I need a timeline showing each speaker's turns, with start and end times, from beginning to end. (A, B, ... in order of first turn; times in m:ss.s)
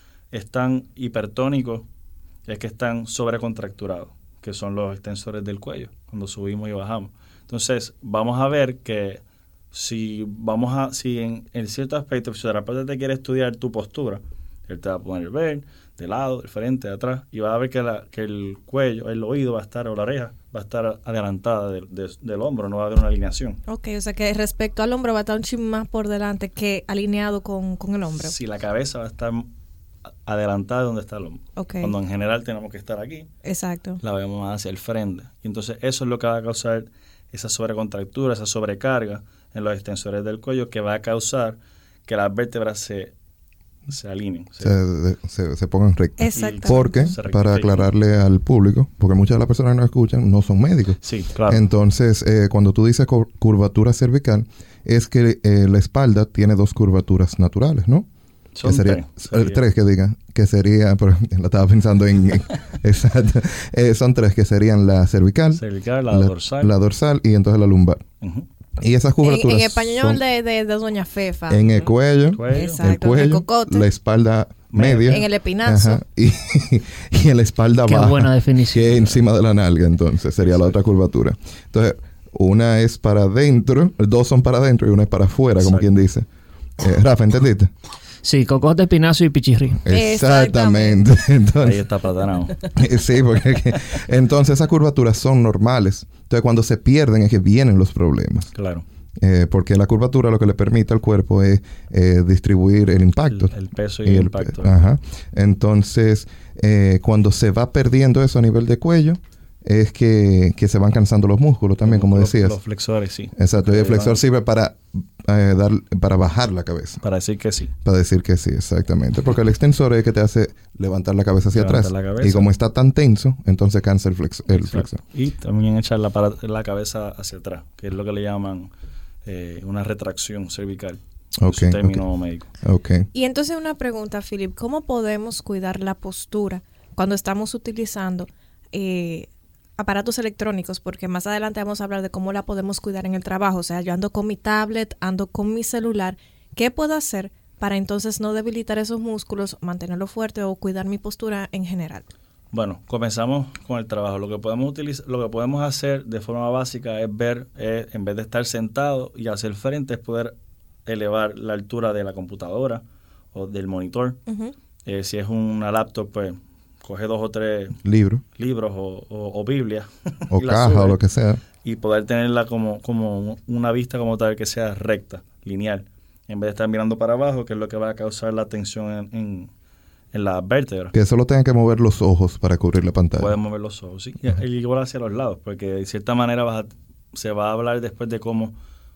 0:00.3-0:01.8 A
0:02.5-0:09.2 A
0:09.7-0:23.6 A
0:23.7-0:28.4 B
0:28.2-0:29.5 A
0:30.3-0:33.3 A
0:31.6-0:31.9 B
0:33.4-0:34.0 B
0:34.0-0:43.1 A
0:43.9-0:44.8 A
0:44.6-0:58.1 C
0:46.2-0:47.1 B
0:46.4-0:47.9 A
0:51.0-0:51.6 A
0:58.6-0:59.6 A
0:58.6-1:08.0 C
1:05.6-1:06.7 A
1:08.2-1:08.5 A
1:08.8-1:10.2 C
1:09.2-1:11.9 B
1:11.5-1:26.3 C
1:12.3-1:12.8 A
1:12.5-1:13.9 B
1:14.7-1:15.2 A
1:14.9-1:16.0 B
1:17.9-1:19.2 D
1:20.4-1:20.7 A
1:25.6-1:25.9 A
1:26.8-1:27.7 C
1:28.2-1:29.8 D
1:29.8-1:31.9 C
1:29.9-1:31.0 B
1:31.6-1:32.6 A
1:32.6-1:38.5 C
1:38.5-1:38.8 A
1:39.2-1:43.5 C
1:43.3-1:44.8 A
1:44.0-1:52.6 C
1:51.8-1:54.2 A
1:53.4-1:57.0 C
1:57.0-1:57.7 A
1:57.8-2:05.0 C
2:01.5-2:02.5 A
2:04.5-2:08.7 A
2:09.2-2:12.5 A
2:11.4-2:12.0 C
2:12.6-2:13.1 C
2:13.1-2:32.1 B
2:32.5-2:40.3 A
2:40.9-2:42.8 A
2:43.3-2:44.2 A
2:44.3-2:44.5 B
2:44.8-2:47.8 A
2:47.8-2:48.2 C
2:48.4-2:51.0 A
2:50.3-2:51.4 C
2:51.6-2:59.5 A
3:00.1-3:00.9 A
3:00.9-3:03.4 C
3:03.2-3:08.6 A